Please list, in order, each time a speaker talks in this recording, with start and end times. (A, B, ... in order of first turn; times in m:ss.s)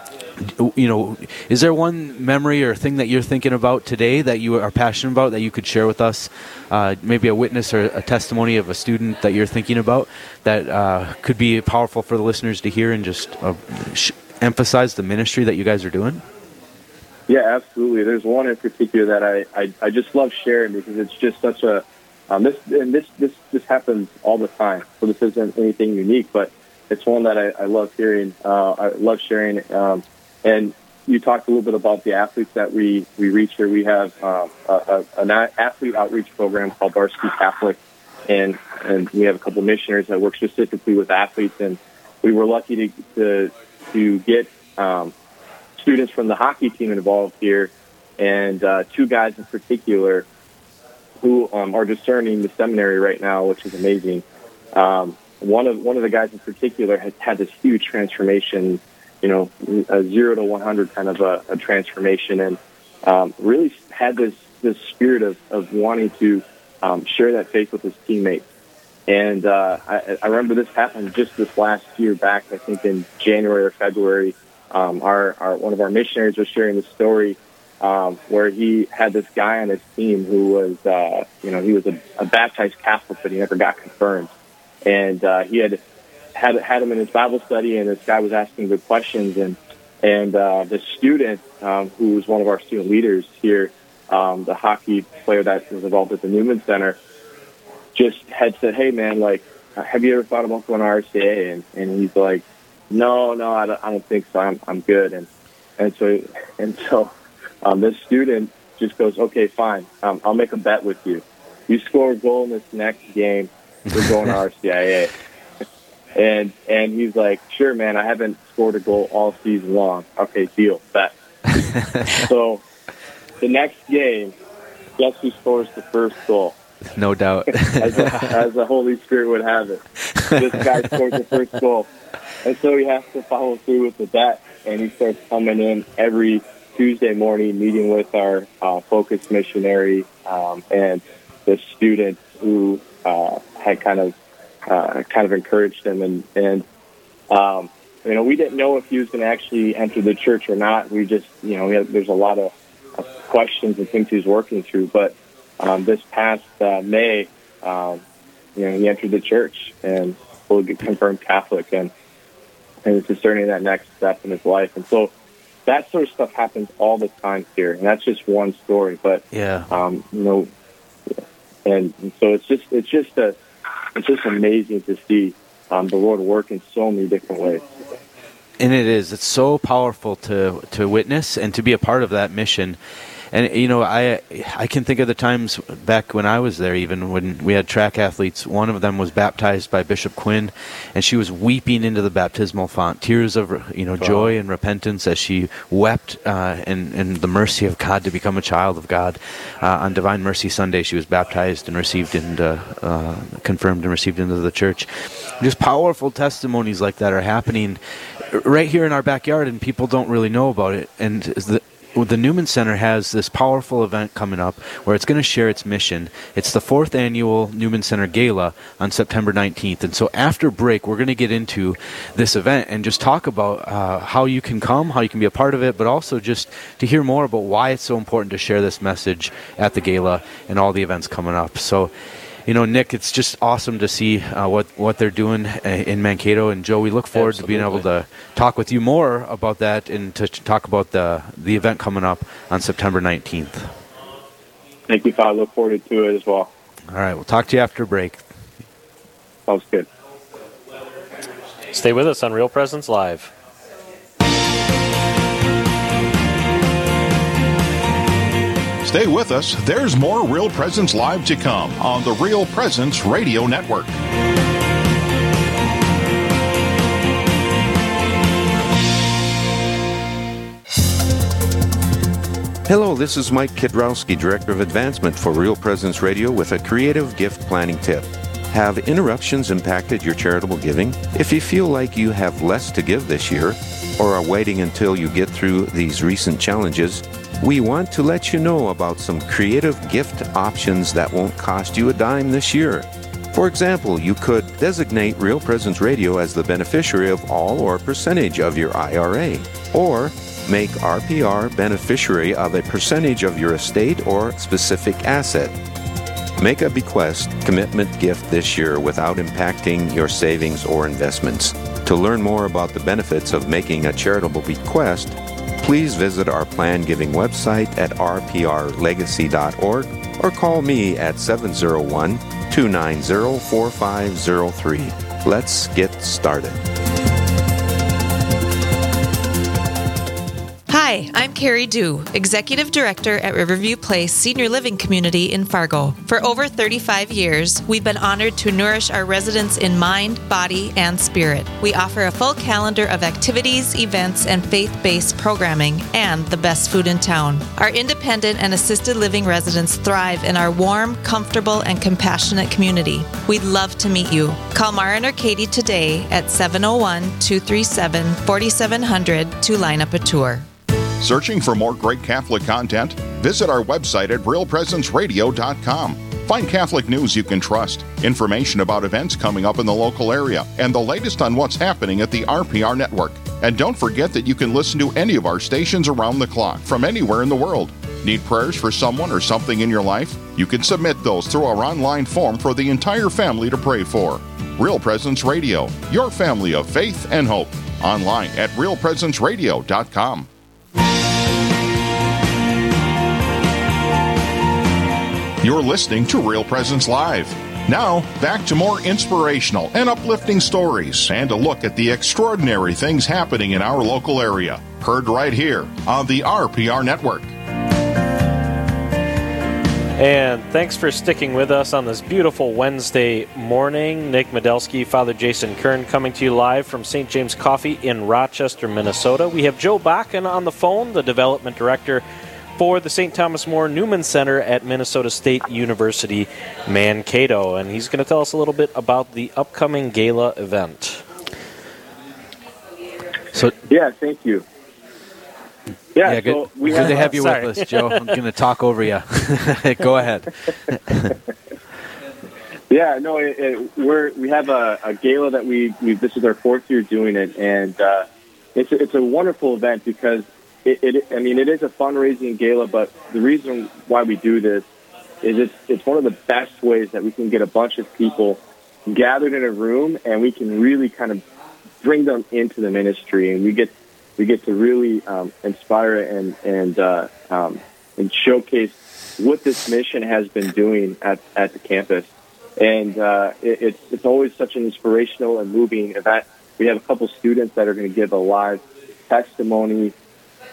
0:00.4-0:16.2 A
0:17.3-0:45.1 B
0:45.8-0:50.3 B
0:51.2-1:08.4 B
1:09.1-1:24.3 B
1:24.8-1:25.8 B
1:26.3-1:37.0 B
1:37.9-1:45.3 B
1:45.8-1:47.1 B
1:47.6-1:55.1 B
1:56.2-2:01.1 B
2:01.6-2:02.2 A
2:02.1-2:02.6 B
2:03.4-2:04.3 B
2:05.0-2:06.5 B
2:06.9-2:08.3 A
2:07.6-2:09.8 B
2:10.3-2:11.9 B
2:12.4-2:24.1 B
2:24.7-2:26.6 B
2:27.3-2:32.5 B
2:33.1-2:38.0 B
2:38.6-2:41.9 B
2:42.8-2:45.1 B
2:45.7-2:50.5 B
2:49.3-2:49.7 A
2:51.6-2:53.4 B
2:53.9-2:57.6 B
2:58.6-3:02.8 A
3:03.3-3:27.8 A
3:14.0-3:14.3 C
3:28.3-3:51.9 A
3:52.5-4:03.7 A
3:57.1-3:57.8 C
4:04.9-4:06.5 B
4:06.9-4:08.2 A
4:09.5-4:09.9 B
4:11.7-4:13.3 C
4:18.8-4:23.9 D
4:32.6-5:05.5 E
5:06.4-5:26.6 E
5:30.7-6:00.4 F
6:01.0-6:30.3 D
6:35.4-6:47.3 D
6:50.0-7:02.0 C
7:02.6-7:11.0 C
7:13.7-7:14.4 B
7:15.9-7:17.1 B
7:16.0-7:21.1 A
7:16.7-7:18.2 C
7:22.7-7:34.6 B
7:35.2-7:41.2 B
7:41.8-7:59.9 B